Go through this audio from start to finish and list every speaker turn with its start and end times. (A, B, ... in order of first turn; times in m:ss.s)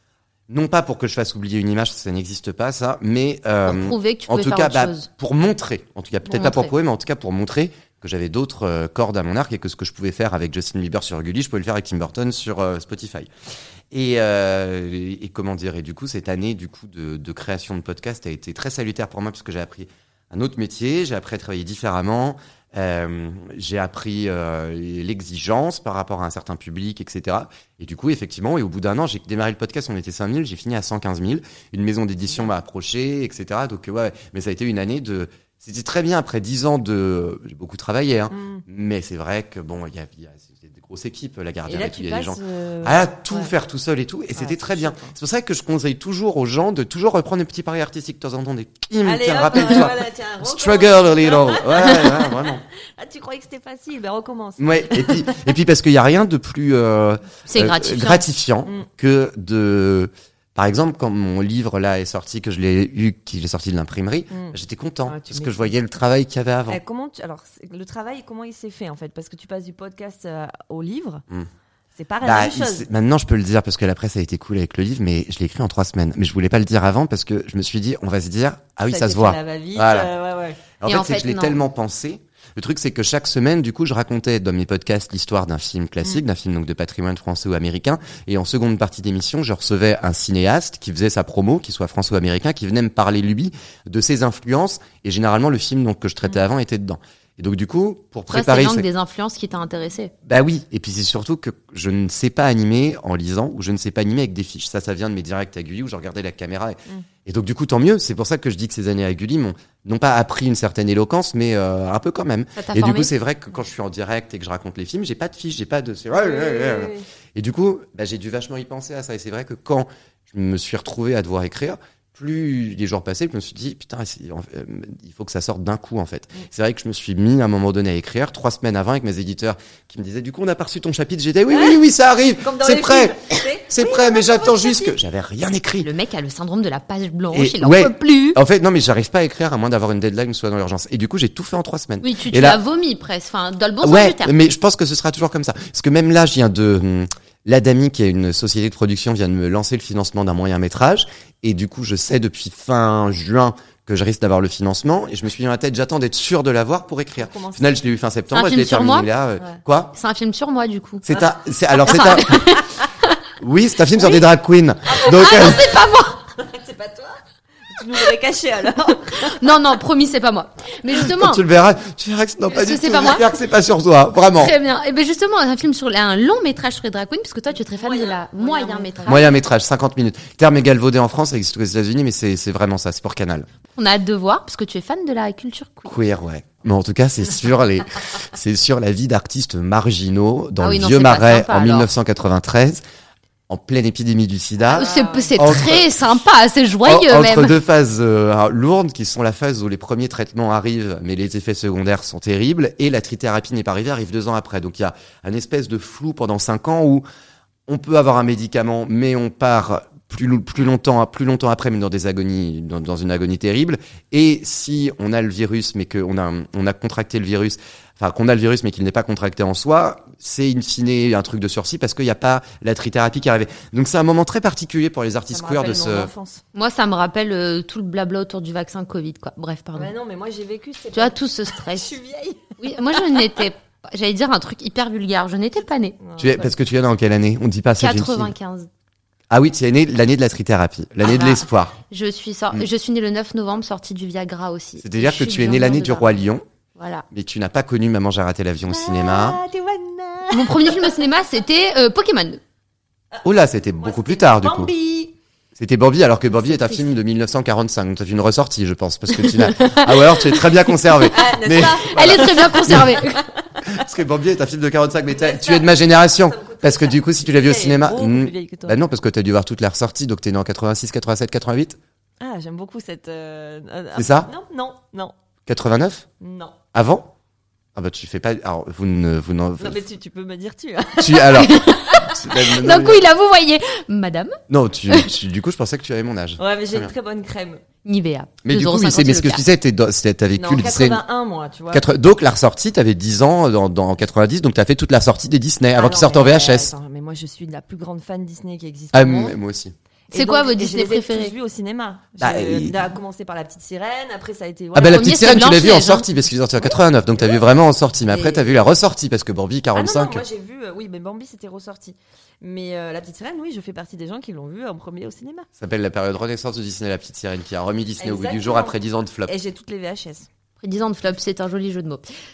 0:00.5-0:13.3 A
0:03.6-0:05.1 B
0:06.3-0:06.7 B
0:13.9-0:52.6 A
0:38.3-0:38.6 C
0:41.7-0:43.5 C
0:44.4-0:45.1 C
0:49.0-0:55.2 C
0:54.6-1:06.8 A
0:57.5-0:58.2 B
1:04.3-1:05.7 C
1:06.7-1:11.2 C
1:12.0-1:12.8 C
1:12.2-1:20.1 A
1:18.9-1:20.6 C
1:20.8-1:38.9 A
1:20.8-1:21.6 B
1:38.3-1:40.1 B
1:40.2-2:15.9 A
1:52.5-1:53.1 B
1:56.2-1:57.0 C
2:11.5-2:11.8 C
2:12.4-2:15.0 C
2:15.8-2:18.4 B
2:17.3-2:22.6 A
2:22.0-2:24.3 B
2:23.8-2:39.9 A
2:37.2-2:37.7 C
2:38.3-2:39.1 B
2:39.9-2:41.0 B
2:41.0-2:42.4 A
2:41.8-2:43.2 B
2:43.4-2:45.7 A
2:44.9-2:49.4 C
2:45.0-2:46.2 B
2:49.1-2:51.4 B
2:50.9-2:54.5 A
2:52.5-2:53.2 B
2:54.3-2:59.3 B
2:57.8-2:59.4 C
2:59.1-3:03.5 A
3:03.8-3:05.9 B
3:05.8-3:12.8 A
3:10.6-3:11.9 B
3:13.5-3:16.0 A
3:14.6-3:15.3 C
3:14.7-3:17.6 B
3:16.8-3:27.0 A
3:27.7-3:46.1 A
3:45.3-3:46.4 C
3:46.5-3:49.9 B
3:49.8-3:52.6 C
3:50.9-3:51.9 B
3:52.6-3:56.4 B
3:56.0-3:56.4 C
3:56.2-3:58.3 A
3:57.8-3:58.7 B
3:59.3-4:01.7 A
4:01.0-4:06.1 B
4:04.8-4:06.4 A
4:06.8-4:07.0 B
4:07.1-4:09.4 A
4:08.7-4:11.0 C
4:10.3-4:12.4 B
4:13.2-4:14.7 A
4:13.8-4:15.1 C
4:15.6-4:23.0 A
4:16.5-4:16.8 C
4:19.2-4:21.1 B
4:21.0-4:23.9 C
4:21.9-4:23.2 B
4:23.6-4:31.8 A
4:25.1-4:28.8 C
4:32.2-4:35.1 C
4:34.0-4:34.3 A
4:35.5-4:36.0 A
4:36.2-4:36.6 C
4:36.7-4:37.1 A
4:37.8-4:39.8 A
4:39.6-4:41.6 C
4:41.0-4:43.0 A
4:41.3-4:44.4 B
4:44.5-4:46.9 A
4:46.4-4:47.6 C
4:47.8-4:49.4 B
4:48.4-4:51.0 A
4:50.4-4:51.8 C
4:51.7-4:56.7 A
4:55.7-4:59.4 C
4:58.9-4:59.7 A
5:00.1-5:05.1 C
5:00.1-5:01.3 B
5:02.2-5:02.8 A
5:04.7-5:10.2 A
5:04.8-5:06.0 B
5:06.6-5:07.4 C
5:08.1-5:08.6 C
5:09.7-5:15.5 C
5:15.6-5:19.3 A
5:18.0-5:20.3 C
5:20.6-5:22.1 B